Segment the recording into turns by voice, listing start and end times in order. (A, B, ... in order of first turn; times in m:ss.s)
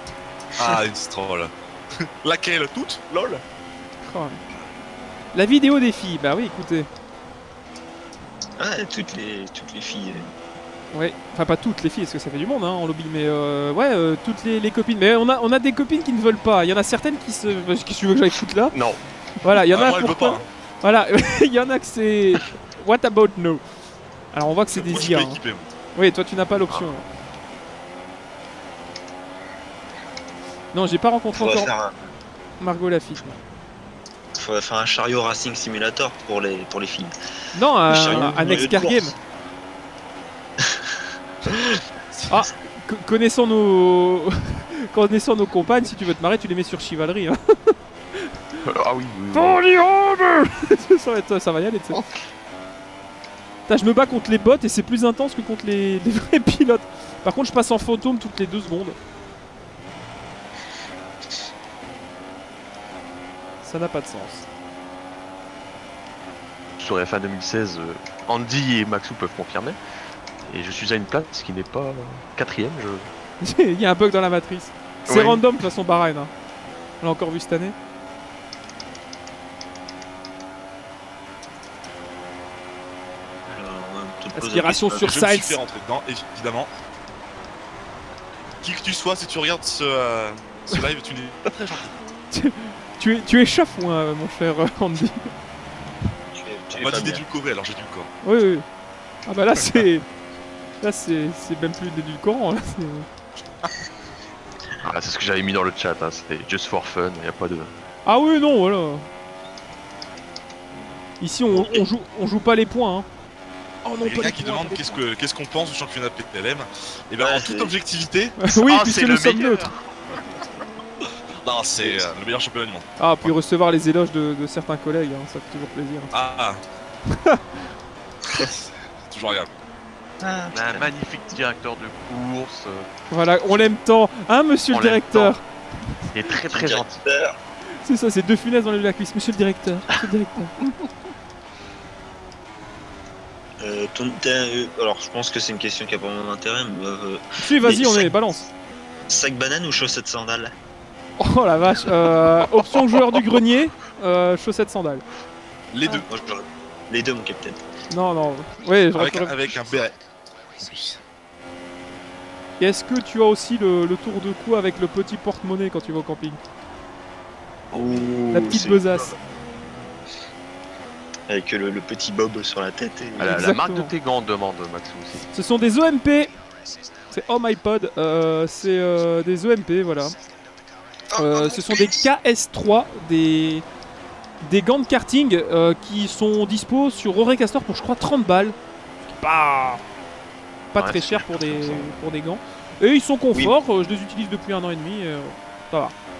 0:00.6-0:03.4 A
0:04.0-0:04.4 B
0:05.3-0:06.9 B
0:08.6-0:10.3 C
0:10.9-0:18.7 B
0:18.7-0:19.0 D
0:19.4-0:23.6 B
0:19.7-0:20.4 A
0:24.3-0:25.4 B
0:24.7-0:25.7 A
0:25.9-0:27.0 B
0:26.7-0:26.9 D
0:30.7-0:31.7 B
0:31.4-0:31.9 C
0:32.6-0:33.4 B
0:34.4-0:37.1 C
0:37.5-0:39.1 B
0:37.9-0:39.1 C
0:41.5-0:41.8 C
0:42.3-0:48.3 B
0:48.6-0:49.6 D
0:49.3-0:52.0 B
0:51.9-0:52.2 D
0:53.7-0:59.0 B
1:03.6-1:04.4 B
1:06.8-1:09.8 D
1:10.4-1:13.1 D
1:13.4-1:16.3 B
1:15.1-1:15.4 D
1:17.0-1:17.7 B
1:23.5-1:25.1 C
1:24.3-1:25.6 B
1:25.0-1:26.7 A
1:28.6-1:31.9 A
1:32.3-1:35.3 B
1:36.3-1:37.2 C
1:36.7-1:38.1 A
1:38.2-1:38.6 B
1:39.3-1:40.0 B
1:40.8-1:43.0 B
1:44.8-1:47.7 D
1:48.0-1:49.0 B
1:51.2-1:53.1 B
1:51.5-1:51.8 C
1:53.8-1:55.0 B
1:54.0-1:58.4 A
1:57.2-1:57.7 C
1:58.4-1:59.7 B
1:58.5-1:59.9 D
2:01.4-2:03.3 A
2:03.0-2:06.2 B
2:06.1-2:06.6 A
2:07.1-2:07.4 B
2:08.3-2:09.5 A
2:10.2-2:10.9 C
2:10.5-2:12.9 D
2:13.1-2:15.4 B
2:14.7-2:15.4 D
2:16.1-2:17.0 D
2:16.5-2:17.3 C
2:17.8-2:20.8 B
2:23.6-2:28.1 C
2:27.4-2:28.5 B
2:29.1-2:30.5 C
2:31.2-2:35.0 B
2:35.7-2:36.1 A
2:35.8-2:37.6 C
2:37.9-2:39.4 B
2:38.9-2:40.0 A
2:40.5-2:41.0 A
2:42.6-2:46.4 B
2:47.7-2:49.2 C
2:48.3-2:49.2 B
2:51.3-2:53.4 C
2:53.2-2:55.2 D
2:53.2-2:53.9 B
2:55.3-2:56.3 B
2:57.1-3:00.1 B
3:01.1-3:02.0 C
3:01.2-3:03.6 B
3:04.4-3:09.8 B
3:10.7-3:15.9 B
3:10.8-3:11.9 D